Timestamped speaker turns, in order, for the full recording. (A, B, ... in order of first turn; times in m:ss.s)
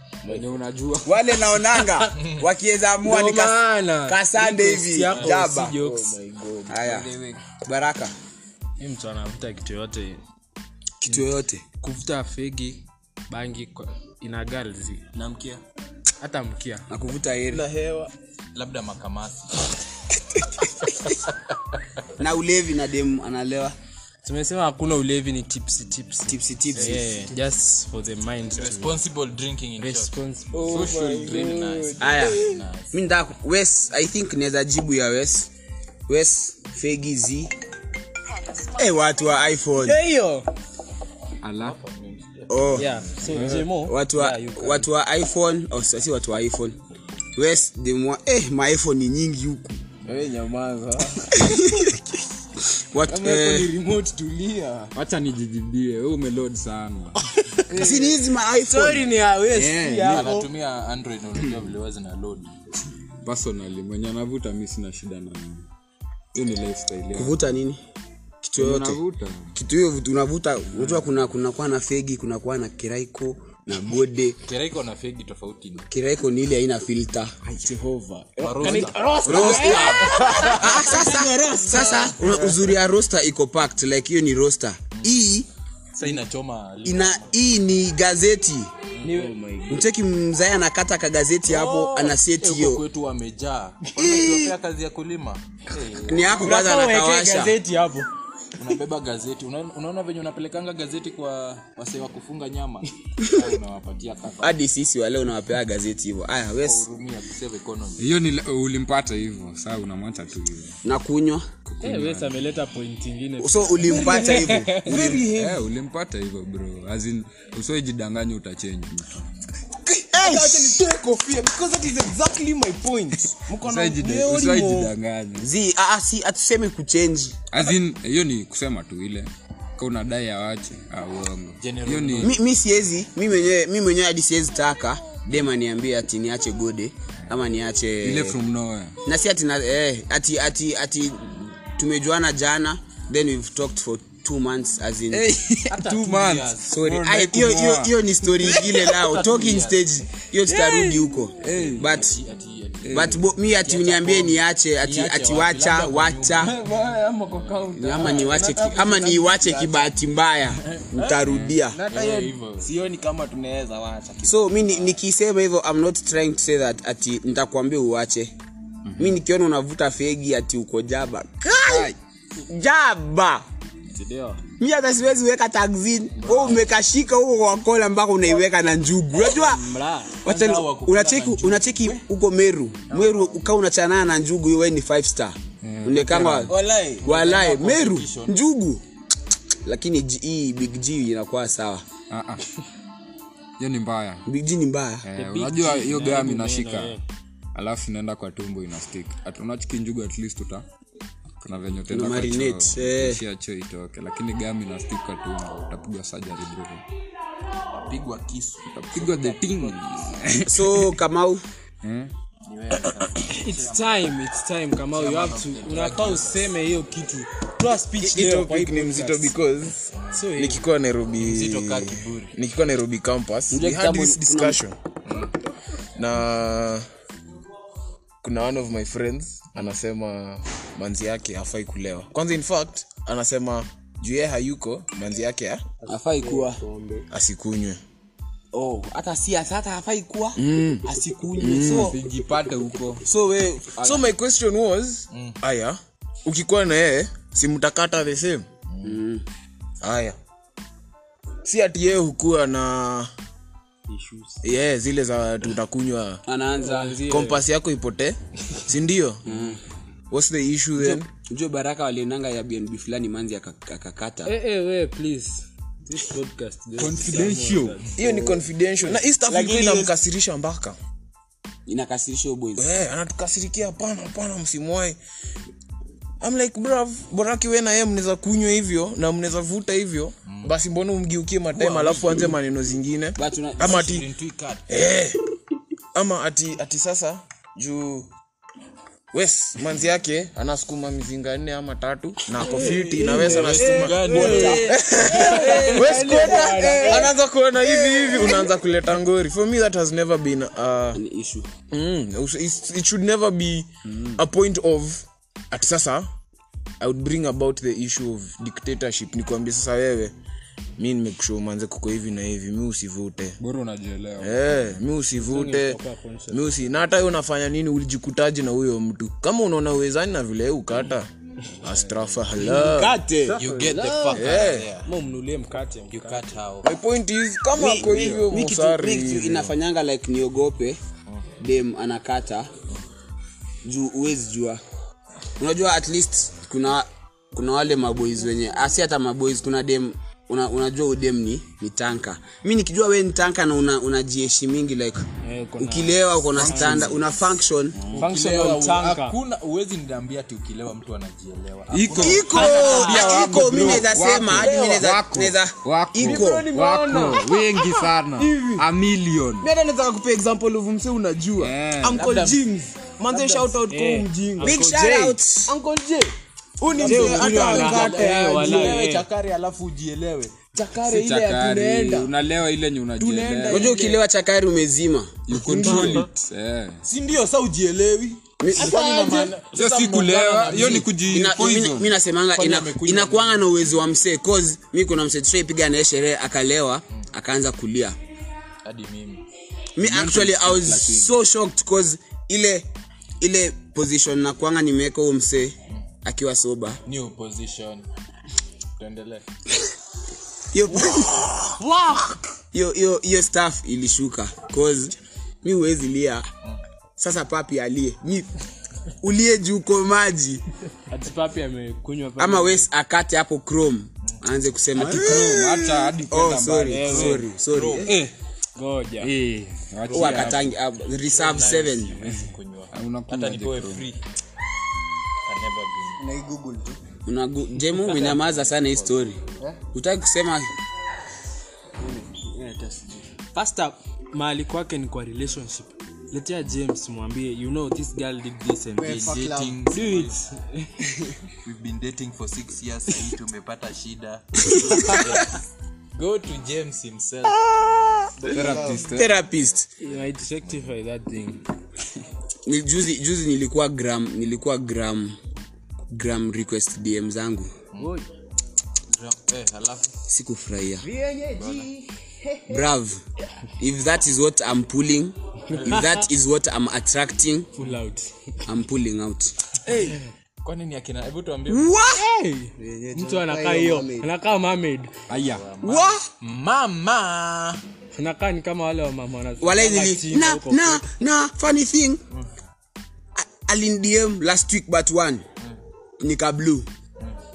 0:00.2-0:01.4 A
0:01.0-0:05.8 B
0:02.2-0:02.4 C
0:03.0-0:06.2 D
0:05.2-0:06.8 E
0:06.7-0:08.1 B
0:06.8-0:07.4 F
0:08.8-0:10.2 D
0:11.0-0:11.6 B
0:11.8-0:15.0 D
0:15.1-0:15.6 F
0:16.2-0:16.9 D
0:16.9-0:17.6 B
0:17.5-0:18.1 E
0:18.6-0:19.6 C
0:22.2-0:23.8 B
0:24.2-0:29.0 D
0:26.3-0:27.1 B
0:28.6-0:30.1 C
0:29.8-0:30.9 D
0:30.5-0:32.5 E
0:30.7-0:31.6 A
0:30.7-0:32.9 C
0:32.0-0:35.5 B
0:36.1-0:37.5 B
0:38.7-0:40.0 B
0:39.8-0:40.4 D
0:41.4-0:41.8 A
0:41.6-0:42.9 C
0:42.5-0:46.8 B
0:42.8-0:44.9 D
0:43.4-0:43.7 E
0:47.4-0:49.8 B
0:50.0-0:51.3 E
0:51.3-0:53.7 B
0:53.1-0:54.9 E
0:54.9-0:57.2 A
0:57.5-1:00.5 D
0:57.7-0:59.1 B
0:59.7-1:00.1 E
0:59.9-1:00.2 A
1:00.0-1:02.5 C
1:03.2-1:05.7 A
1:06.3-1:07.4 A
1:07.1-1:07.8 B
1:08.4-1:09.0 B
1:08.6-1:09.5 A
1:09.6-1:14.4 B
1:10.8-1:11.1 A
1:14.4-1:15.9 C
1:15.9-1:17.3 B
1:17.4-1:19.9 E
1:18.4-1:21.1 C
1:18.6-1:22.1 D
1:19.2-1:25.5 B
1:22.2-1:22.6 E
1:26.0-1:27.3 C
1:26.8-1:28.7 B
1:29.0-1:29.9 E
1:29.0-1:29.3 D
1:29.7-1:32.8 B
1:31.5-1:35.4 C
1:34.0-1:34.5 B
1:36.0-1:38.1 D
1:36.1-1:36.5 C
1:36.1-1:37.6 B
1:38.6-1:44.6 C
1:43.2-1:43.5 B
1:44.4-1:46.8 B
1:46.6-1:48.1 C
1:48.0-1:50.8 A
1:50.8-1:51.5 B
1:51.7-1:52.4 A
1:51.8-1:55.2 D
1:53.4-1:55.0 B
1:53.8-1:55.6 E
1:55.0-1:59.1 A
1:59.8-2:04.9 E
2:00.1-2:00.9 B
2:03.6-2:05.5 A
2:05.4-2:07.4 B
2:07.5-2:12.4 A
2:11.6-2:12.4 C
2:12.2-2:18.4 B
2:18.0-2:19.0 A
2:19.0-2:25.3 B
2:25.1-2:28.0 A
2:25.7-2:26.7 C
2:26.7-2:32.2 B
2:28.6-2:29.8 C
2:30.5-2:32.0 A
2:31.4-2:36.6 C
2:32.8-2:33.2 A
2:32.9-2:36.5 B
2:36.4-2:39.9 E
2:37.3-2:37.6 C
2:37.8-2:41.8 B
2:41.0-2:44.9 E
2:41.2-2:41.6 A
2:41.9-2:42.7 C
2:44.2-2:48.3 B
2:48.9-2:49.2 A
2:49.0-2:52.0 B
2:51.7-2:52.0 A
2:52.5-2:53.4 B
2:54.0-2:54.4 D
2:54.6-2:59.7 B
2:56.2-2:56.6 D
2:59.2-3:00.9 D
3:00.2-3:08.8 B
3:00.3-3:02.0 C
3:02.9-3:03.5 C
3:05.6-3:06.5 A
3:06.5-3:07.1 E
3:07.0-3:08.4 C
3:09.6-3:11.8 B
3:12.1-3:12.4 A
3:13.6-3:14.3 A
3:14.3-3:15.1 B
3:15.0-3:17.0 A
3:15.2-3:17.0 D
3:17.5-3:20.7 A
3:21.4-3:26.8 A
3:21.9-3:23.2 B
3:27.8-3:29.8 C
3:28.7-3:31.0 A
3:30.5-3:31.4 B
3:31.8-3:32.1 A
3:32.5-3:34.1 C
3:33.3-3:39.3 D
3:34.9-3:36.5 C
3:38.0-3:44.8 E
3:39.9-3:40.2 C
3:40.1-3:40.6 D
3:41.2-3:42.4 C
3:43.5-3:44.6 B
3:45.1-3:45.3 C
3:46.0-3:46.9 E
3:48.2-3:55.6 E
3:55.8-3:57.1 D
3:55.9-3:56.6 B
3:57.1-3:57.8 E
3:58.5-4:02.0 B
4:00.4-4:00.9 E
4:01.4-4:01.9 E
4:01.5-4:03.0 A
4:03.1-4:04.0 B
4:03.8-4:08.5 E
4:05.1-4:05.4 C
4:08.7-4:09.0 C
4:08.8-4:09.2 B
4:09.8-4:10.2 E
4:11.4-4:13.1 E
4:13.9-4:14.4 D
4:14.4-4:16.2 E
4:16.3-4:17.0 B
4:16.5-4:17.4 D
4:17.0-4:19.3 E
4:19.2-4:19.6 B
4:20.1-4:21.1 E
4:20.8-4:24.3 B
4:24.2-4:28.1 D
4:26.8-4:27.8 A
4:28.0-4:30.8 E
4:29.3-4:30.0 B
4:31.7-4:32.7 B
4:32.6-4:35.0 E
4:36.2-4:44.1 E
4:40.3-4:40.5 C
4:41.6-4:42.3 C
4:43.2-4:43.9 B
4:43.6-4:44.6 C
4:44.7-4:45.2 E
4:46.0-4:48.1 E
4:49.1-5:01.0 E
4:52.4-4:57.1 D
4:52.6-4:56.0 C
4:54.0-4:54.7 B
4:55.3-4:57.1 B
4:57.6-4:58.4 B
5:00.9-5:01.5 B
5:01.7-5:06.1 E
5:03.9-5:04.2 A
5:06.8-5:10.1 E
5:10.8-5:13.4 E
5:13.4-5:14.5 A
5:14.2-5:15.8 E
5:15.2-5:16.6 D
5:16.3-5:21.1 E
5:21.6-5:23.0 E
5:22.4-5:23.4 B
5:23.3-5:24.9 C
5:23.4-5:26.3 D
5:24.1-5:24.7 E
5:25.9-5:26.7 C
5:26.6-5:29.6 E
5:27.5-5:30.8 B
5:31.4-5:32.5 B
5:33.6-5:34.6 B
5:35.4-5:45.0 B
5:45.2-5:46.9 D
5:45.6-5:47.8 B
5:46.4-5:47.0 A
5:47.8-5:48.1 E
5:47.9-5:52.8 C
5:47.9-5:49.2 D
5:51.7-5:59.5 A
5:52.0-5:56.5 B
5:52.3-5:53.3 D
5:53.2-5:54.9 E
5:56.0-5:58.7 E
5:59.4-6:08.9 E
6:01.4-6:02.1 A
6:02.0-6:02.4 C
6:03.1-6:03.5 C
6:03.1-6:05.2 D
6:04.4-6:05.5 B
6:06.8-6:10.4 C
6:06.8-6:09.1 D
6:06.8-6:08.1 B
6:10.5-6:12.1 E
6:10.8-6:13.8 A
6:13.0-6:14.0 E
6:13.5-6:15.2 B
6:15.3-6:16.8 A
6:15.4-6:16.1 E
6:16.8-6:20.9 C
6:18.4-6:19.0 B
6:18.6-6:19.4 E
6:19.5-6:21.9 A
6:21.0-6:28.0 B
6:22.3-6:23.8 C
6:28.6-6:29.2 C
6:29.8-6:32.7 B
6:29.8-6:31.1 A
6:33.2-6:36.8 B
6:36.9-6:37.9 C
6:38.8-6:39.2 C
6:40.5-6:41.6 B
6:41.6-6:42.2 D
6:42.5-6:46.3 B
6:47.0-6:48.3 B
6:49.0-6:50.4 B
6:50.9-6:52.7 D
6:52.2-6:58.0 B
6:54.8-6:57.3 A
6:56.7-6:57.2 D
6:57.5-6:58.0 C
6:57.9-6:59.1 D
6:59.0-7:00.6 A
6:59.8-7:04.0 C
6:59.9-7:02.0 B
7:02.7-7:03.9 A
7:05.3-7:06.0 C
7:06.0-7:06.8 F
7:07.1-7:09.2 B
7:07.8-7:09.0 C
7:09.7-7:10.5 B
7:11.8-7:13.1 F
7:13.3-7:20.7 D
7:18.8-7:19.6 F
7:18.8-7:20.2 C
7:21.4-7:25.4 C
7:24.5-7:25.1 B
7:26.0-7:27.4 C
7:27.4-7:28.1 B
7:28.2-7:28.9 F
7:28.3-7:29.1 A
7:28.9-7:29.7 B
7:29.8-7:31.4 D
7:32.5-7:35.2 B
7:35.9-7:37.5 B
7:37.8-7:38.1 D
7:38.9-7:39.9 C
7:40.1-7:40.9 B
7:40.8-7:42.7 F
7:41.3-7:41.7 C
7:42.5-7:43.0 B
7:43.6-7:47.5 B
7:45.6-7:46.0 D
7:47.6-7:48.1 D
7:48.5-7:49.3 B
7:49.7-7:51.8 C
7:49.7-7:50.0 D
7:51.5-7:52.0 B
7:51.9-7:54.9 D
7:52.6-7:54.1 F
7:55.1-7:55.5 A
7:55.1-7:57.6 C
7:55.6-7:56.0 B
7:57.9-8:00.9 D
7:59.4-8:02.0 B
8:03.2-8:05.2 B
8:06.0-8:06.7 B